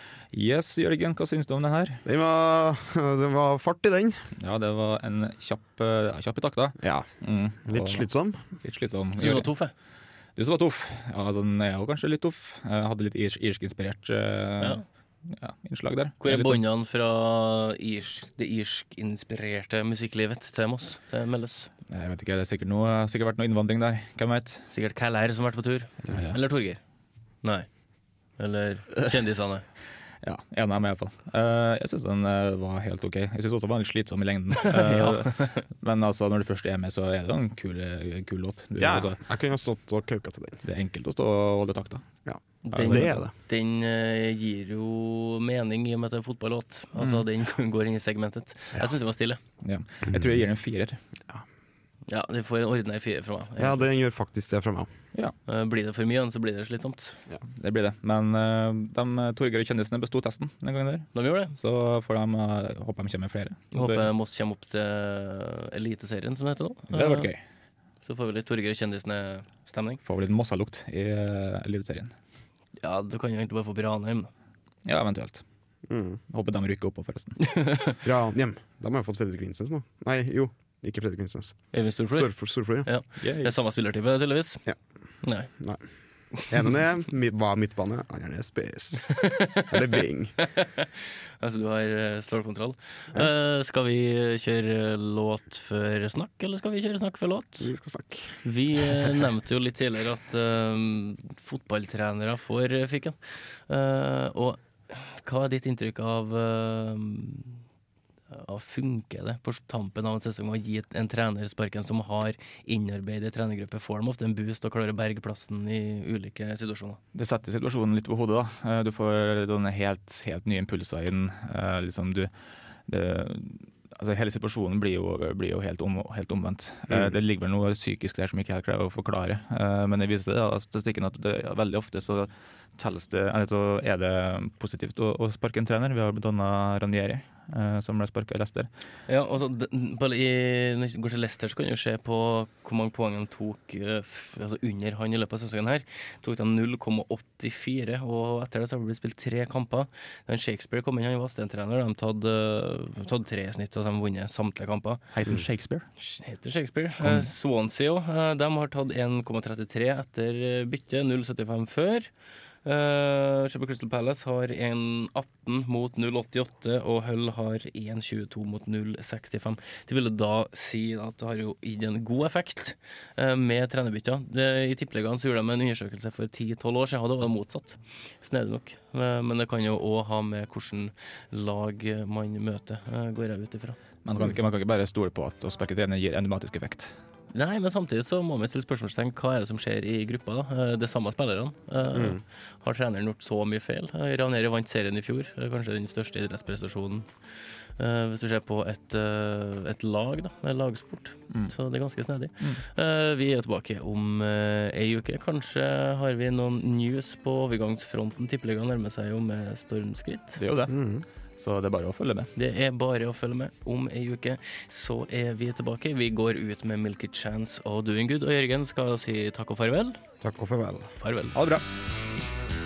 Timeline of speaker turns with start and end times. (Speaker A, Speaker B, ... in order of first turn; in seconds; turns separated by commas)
Speaker A: 0.3-2.0, Speaker B: 2.0-4.2, Speaker A: 4.4-8.1, Speaker B: 6.8-7.1, Speaker B: 7.7-8.4, Speaker A: 8.6-9.5, Speaker C: 9.2-9.7, Speaker A: 10.4-16.6, Speaker C: 16.2-21.7, Speaker A: 21.9-24.7, Speaker C: 24.7-26.8, Speaker A: 26.1-26.4, Speaker C: 28.4-29.6, Speaker A: 30.2-39.2, Speaker C: 34.6-35.6, Speaker B: 38.8-40.6, Speaker A: 40.6-42.0, Speaker B: 42.3-43.3, Speaker C: 42.6-49.4, Speaker A: 42.7-43.2, Speaker A: 49.6-51.0, Speaker C: 52.1-53.9, Speaker B: 53.6-54.9, Speaker C: 55.5-57.2, Speaker A: 57.6-64.1, Speaker C: 61.1-61.5, Speaker C: 63.7-67.3, Speaker A: 66.9-67.4, Speaker C: 68.0-70.0, Speaker A: 70.0-72.1, Speaker C: 72.8-74.3, Speaker A: 74.8-75.4, Speaker B: 75.9-76.2, Speaker A: 76.3-77.4, Speaker C: 77.4-78.0, Speaker B: 78.0-82.9, Speaker C: 81.7-84.6, Speaker A: 83.2-83.5, Speaker C: 85.2-85.5, Speaker B: 85.6-85.8, Speaker B: 86.5-90.3, Speaker C: 89.2-89.8, Speaker C: 90.4-90.9, Speaker C: 91.4-97.7, Speaker B: 97.6-98.4, Speaker C: 98.4-107.6, Speaker C: 108.3-117.0, Speaker A: 117.1-122.3, Speaker A: 122.9-138.7, Speaker C: 139.1-155.0, Speaker A: 155.1-155.9, Speaker C: 156.0-162.1, Speaker A: 157.0-157.3, Speaker C: 162.7-183.8, Speaker A: 184.1-186.9, Speaker C: 187.3-197.1, Speaker B: 191.9-192.2, Speaker C: 197.8-210.4, Speaker A: 210.4-210.8, Speaker B: 210.7-211.1, Speaker A: 211.4-212.3, Speaker C: 212.4-220.0, Speaker B: 220.2-220.9, Speaker C: 221.0-221.4, Speaker A: 221.3-221.6